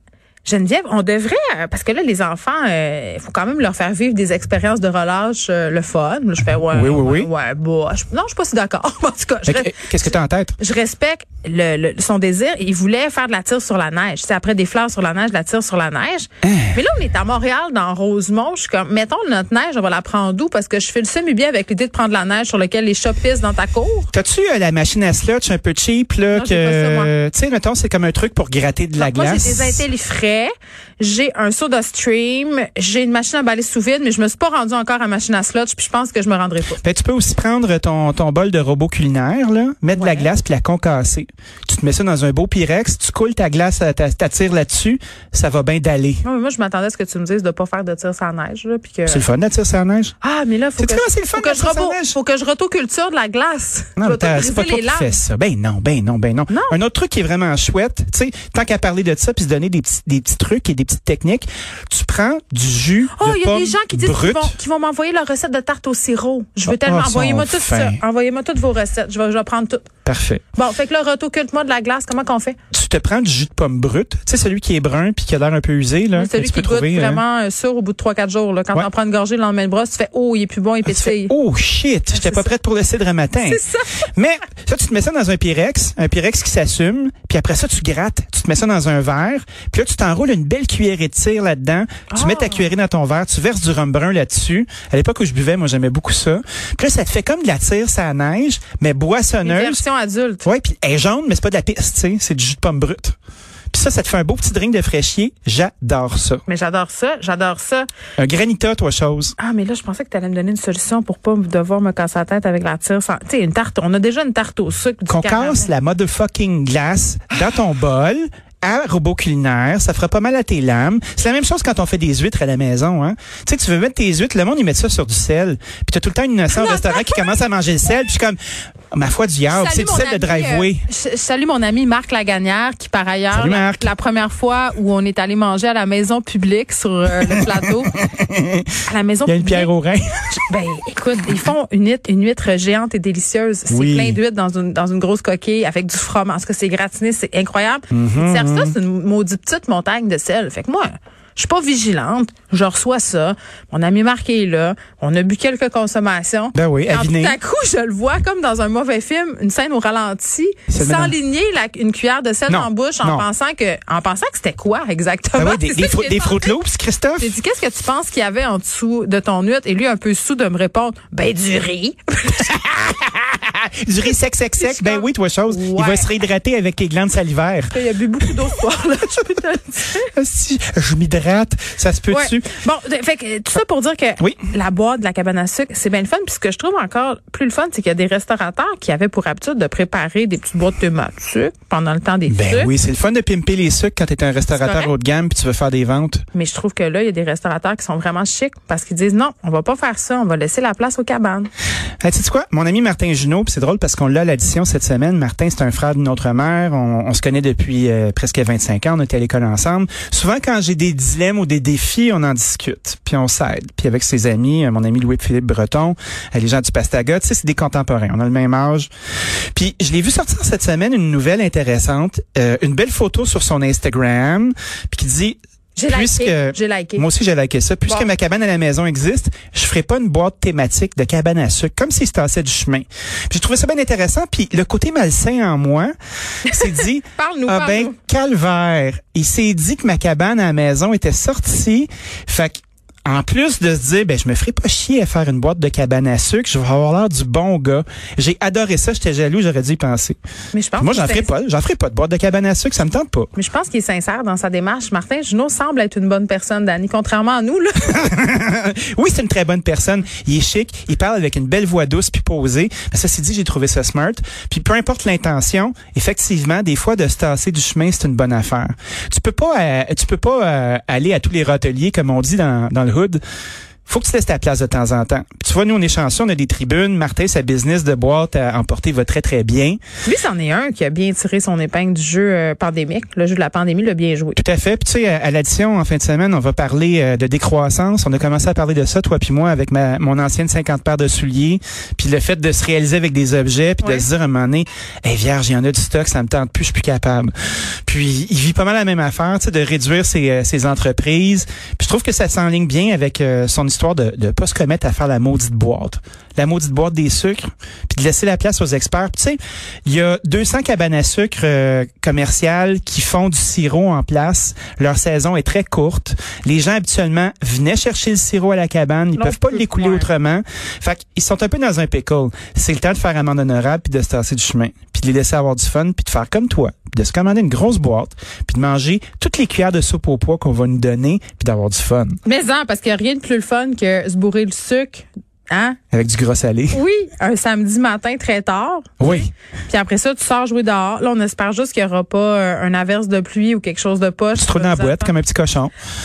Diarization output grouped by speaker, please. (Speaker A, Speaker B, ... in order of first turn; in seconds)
Speaker A: 0.4-24.1, 26.3-27.1, 29.0-36.8, 40.0-40.3, 46.2-49.2, 50.2-55.2, 56.5-56.8, 63.1-69.9, 70.5-72.5, 76.1-81.3, 82.1-82.5, 83.4-84.0, 92.1-92.6, 99.4-100.5, 106.5-107.9, 109.4-115.7, 126.5-127.3, 129.5-137.9, 138.8-139.7, 140.5-166.6, 167.2-172.6, 174.6-176.1, 177.7-180.1, 182.1-192.7, 194.5-194.9, 196.3-201.5, 225.8-227.1, 236.4-237.9, 250.5-251.3, 253.3-258.0, 280.0-284.4, 293.8-294.1, 319.1-320.1, 332.2-335.8, 336.7-345.1
Speaker B: 6.7-7.3, 9.4-10.6, 16.4-16.8, 24.1-29.8, 36.8-46.2, 49.0-50.1, 50.8-52.1, 54.0-64.5, 66.7-68.0, 70.0-70.4, 72.7-77.2, 80.8-83.6, 84.1-99.8, 100.4-103.1, 103.7-106.4, 108.2-109.3, 115.1-128.4, 128.9-130.8, 133.3-133.9, 137.4-138.7, 139.2-140.3, 143.7-144.2, 147.9-148.7, 156.5-157.4, 160.7-161.2, 162.5-163.2, 165.3-167.3, 172.7-177.7, 180.0-182.5, 192.3-196.2, 202.0-218.9, 219.5-225.4, 225.9-235.9, 236.4-250.2, 250.8-253.3, 257.9-273.2, 273.9-279.8, 284.4-297.3, 297.9-332.2, 335.9-336.8, 339.0-339.3, 344.3-345.7